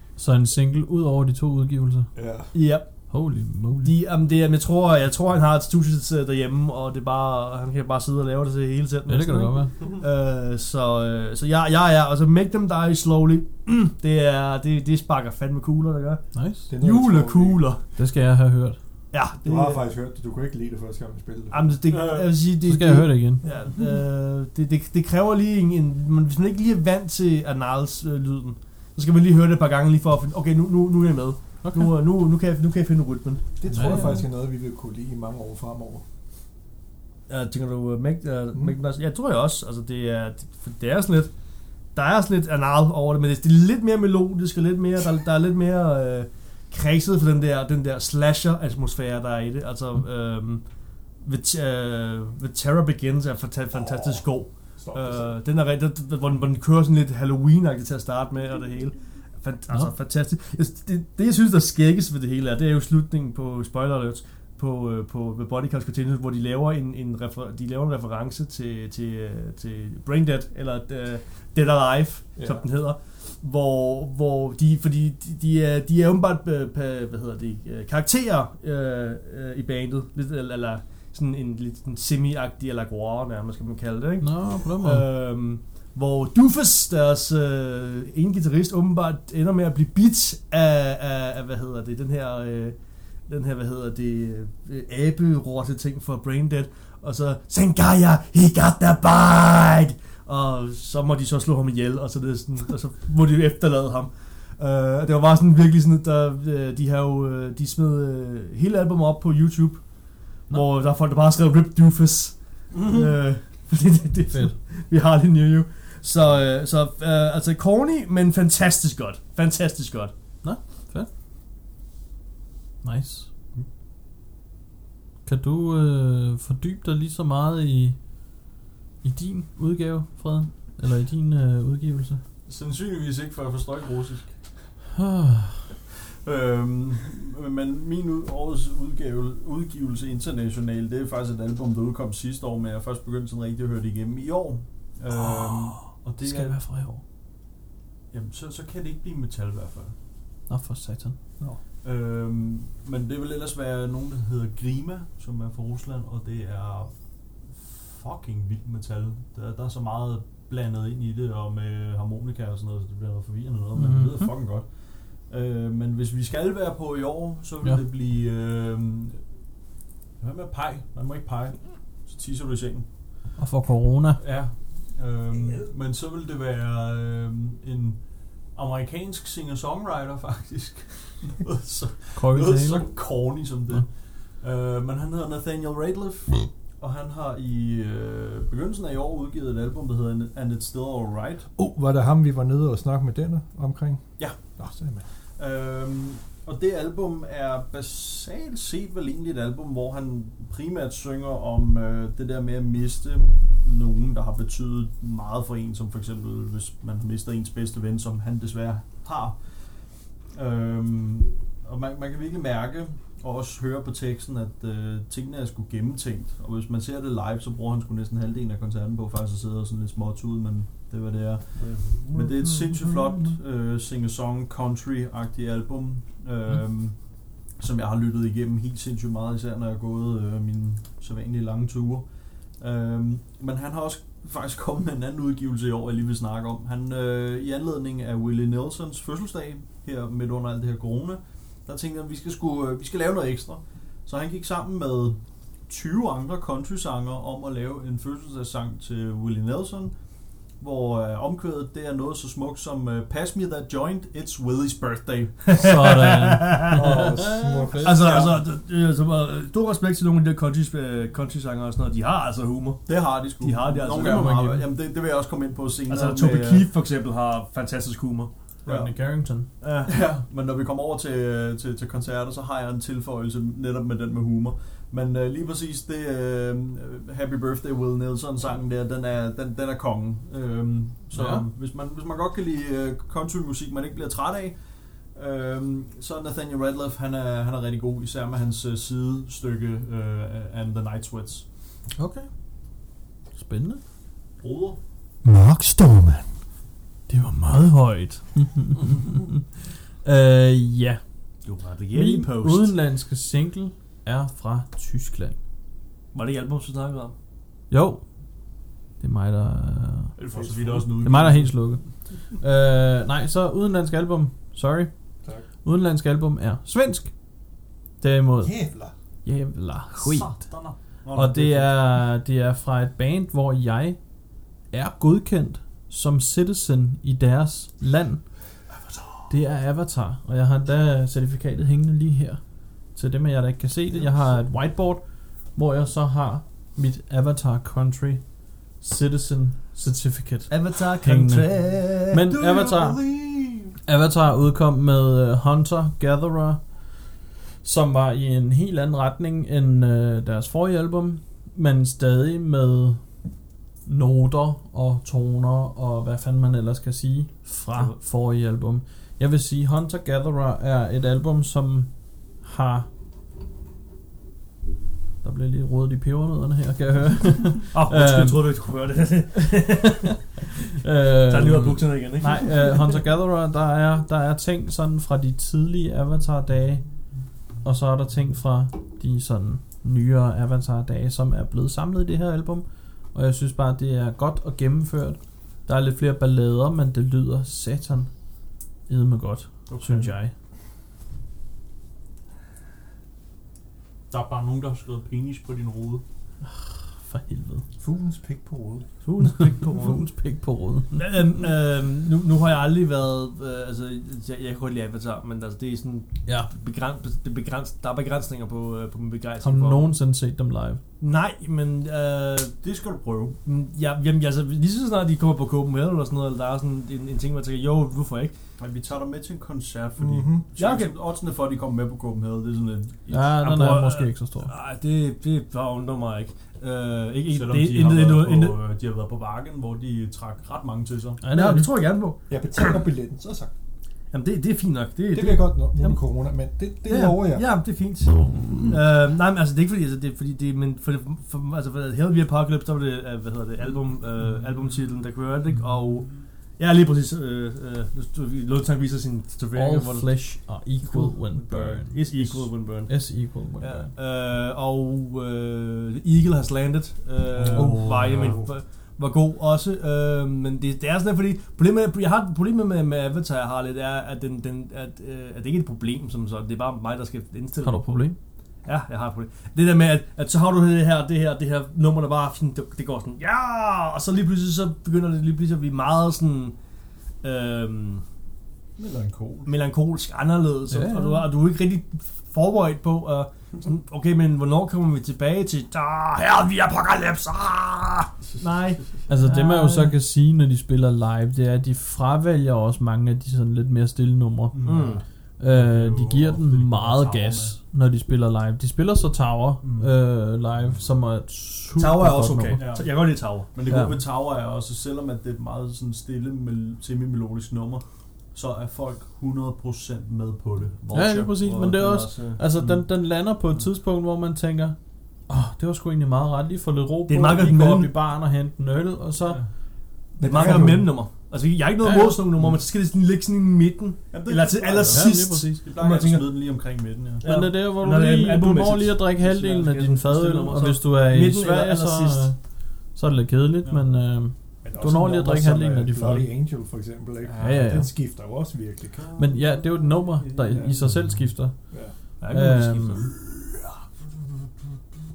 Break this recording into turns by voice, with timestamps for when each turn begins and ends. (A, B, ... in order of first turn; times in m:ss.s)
0:00.2-0:02.1 A
0:02.2-0:02.5 B
0:02.5-0:02.9 C
0:03.1-0:04.0 A
0:03.8-0:16.2 C
0:09.1-0:09.7 A
0:16.3-0:16.7 A
0:16.7-0:17.6 B
0:16.8-0:17.8 C
0:18.0-0:18.8 A
0:19.1-0:19.8 C
0:19.4-0:21.8 B
0:21.5-0:33.5 C
0:21.9-0:22.3 D
0:22.6-0:23.4 A
0:31.6-0:31.9 A
0:33.6-0:36.0 B
0:33.7-0:34.2 A
0:37.3-0:41.3 C
0:42.0-0:50.6 C
0:51.2-1:32.8 C
0:53.7-0:54.2 B
0:54.8-0:55.4 B
1:12.4-1:12.6 B
1:24.2-1:25.1 A
1:33.3-2:00.1 C
2:00.4-2:01.1 A
2:02.8-2:03.3 A
2:05.3-2:08.0 A
2:09.0-2:12.2 A
2:12.5-2:14.6 D
2:15.0-2:15.6 A
2:16.2-2:26.6 D
2:25.1-2:27.0 A
2:28.1-2:29.9 D
2:30.5-2:31.2 A
2:31.8-2:36.9 D
2:37.5-2:49.2 D
2:43.7-2:44.3 A
2:50.2-2:52.9 D
2:53.4-2:54.2 A
2:54.2-2:58.0 D
2:58.5-3:11.5 D
3:02.2-3:02.9 A
3:11.6-3:14.0 B
3:14.6-3:15.0 B
3:15.4-3:29.4 D
3:30.3-4:10.0 D
3:41.6-3:43.4 C
4:10.6-4:15.4 D
4:15.5-4:16.8 C
4:15.6-4:18.2 A
4:16.7-4:18.3 B
4:17.8-4:24.4 C
4:18.0-4:18.3 D
4:22.9-4:26.7 D
4:24.0-4:24.7 A
4:25.9-4:28.3 C
4:28.6-4:29.5 A
4:28.7-4:28.9 D
4:29.6-4:29.9 C
4:29.9-4:44.6 D
4:41.1-4:41.5 A
4:45.1-4:51.4 D
4:52.0-4:52.3 A
4:53.4-4:53.8 A
4:54.4-4:54.8 D
4:55.2-4:56.3 C
4:57.1-4:59.5 A
5:00.0-5:01.0 A
5:01.4-5:02.7 C
5:01.9-5:05.4 A
5:06.1-5:07.2 C
5:07.7-5:08.0 A
5:09.0-5:10.2 A
5:10.2-5:11.5 D
5:10.3-5:10.8 B
5:11.0-5:11.9 A
5:12.4-5:14.9 A
5:15.6-5:17.1 A
5:18.0-5:18.6 A
5:18.4-5:18.9 B
5:19.2-5:20.4 A
5:20.0-5:21.8 D
5:21.1-5:24.0 A
5:24.7-5:28.2 A
5:29.3-5:32.4 A
5:32.9-5:38.2 A
5:38.8-5:43.0 A
5:40.5-5:43.8 C
5:43.9-5:46.6 A
5:47.6-5:53.0 A
5:53.9-6:01.9 A
6:02.4-6:02.9 A
6:05.2-6:08.4 A
6:07.7-6:10.1 C
6:09.8-6:16.8 A
6:11.3-6:13.0 C
6:17.6-6:28.1 A
6:28.9-6:30.3 A
6:29.7-6:30.1 D
6:34.1-6:36.0 D
6:36.4-6:37.6 A
6:37.8-6:38.9 B
6:39.0-6:40.0 C
6:39.2-6:41.4 A
6:40.9-6:49.9 C
6:49.4-6:50.8 A
6:51.0-6:52.6 C
6:52.6-6:53.4 D
6:53.4-6:58.3 C
6:58.6-7:03.2 D
7:00.0-7:00.5 B
7:00.6-7:00.9 C
7:03.1-7:04.5 A
7:03.4-7:08.6 C
7:07.3-7:11.2 D
7:11.2-7:11.7 A
7:11.3-7:12.8 C
7:12.3-7:13.5 B
7:14.1-7:16.0 C
7:15.1-7:17.4 B
7:16.8-7:30.2 C
7:29.5-7:32.3 A
7:31.7-7:32.3 D
7:31.9-7:33.0 C
7:32.9-7:33.9 A
7:33.6-7:48.0 C
7:37.4-7:38.4 D
7:47.6-7:48.2 A
7:48.6-7:56.6 C
7:57.2-7:58.0 C
7:58.8-7:59.5 D
7:59.5-8:09.9 C
8:00.7-8:01.3 A
8:09.1-8:14.7 A
8:14.5-8:17.6 D
8:14.6-8:15.0 C
8:15.4-8:22.6 A
8:19.6-8:19.9 D
8:21.8-8:23.5 C
8:22.6-8:31.3 D
8:23.7-8:24.0 A
8:30.9-8:34.8 A
8:31.2-8:32.4 C
8:32.6-8:32.8 D
8:35.3-8:39.4 A
8:37.1-8:37.9 C
8:39.2-8:39.5 D
8:40.2-8:40.9 B
8:40.2-8:46.4 C
8:41.8-8:42.2 A
8:44.1-8:47.2 D
8:44.9-8:45.5 A
8:47.2-8:52.3 C
8:47.2-8:52.4 A
8:52.9-8:56.3 A
8:54.6-8:59.0 B
8:57.4-8:57.9 A
8:57.4-8:57.7 C
8:59.0-9:01.1 D
8:59.2-9:01.6 A
9:00.5-9:00.8 B
9:02.2-9:03.6 C
9:02.3-9:03.1 A